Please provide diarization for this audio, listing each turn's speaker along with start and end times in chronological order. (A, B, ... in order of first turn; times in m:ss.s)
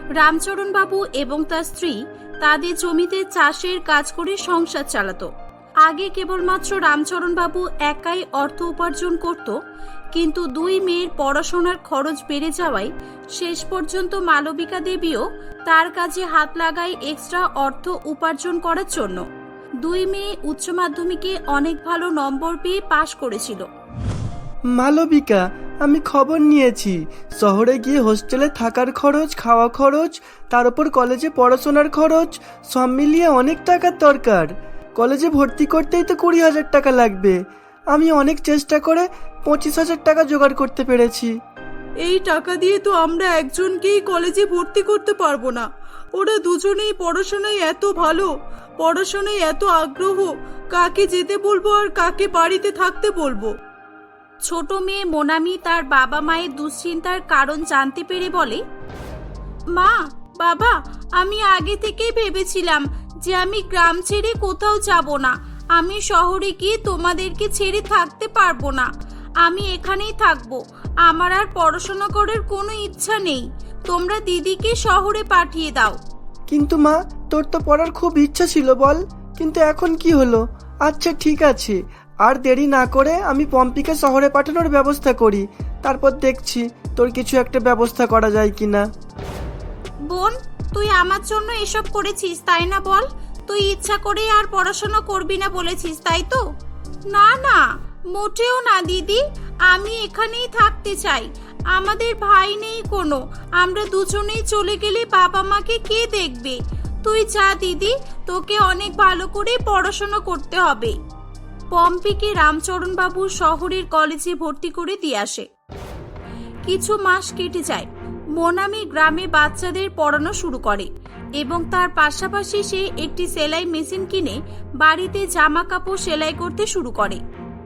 0:00.2-0:05.3 A
0:05.8-0:09.6 A
0:10.1-0:19.2 A
0:19.8-0:23.6 A
0:24.8-0:37.4 B
0:37.9-0:41.3 B
0:42.1-0:45.6 C
0:46.2-0:48.2 C
0:48.8-0:53.5 C
0:54.5-0:58.6 A
0:59.8-1:08.9 A
1:09.4-1:16.0 A
1:16.5-1:28.8 B
1:30.1-1:36.4 A
1:37.1-1:37.6 A
1:38.1-1:50.9 A
1:51.7-1:55.4 A
1:56.6-2:00.9 A
2:01.4-2:07.2 A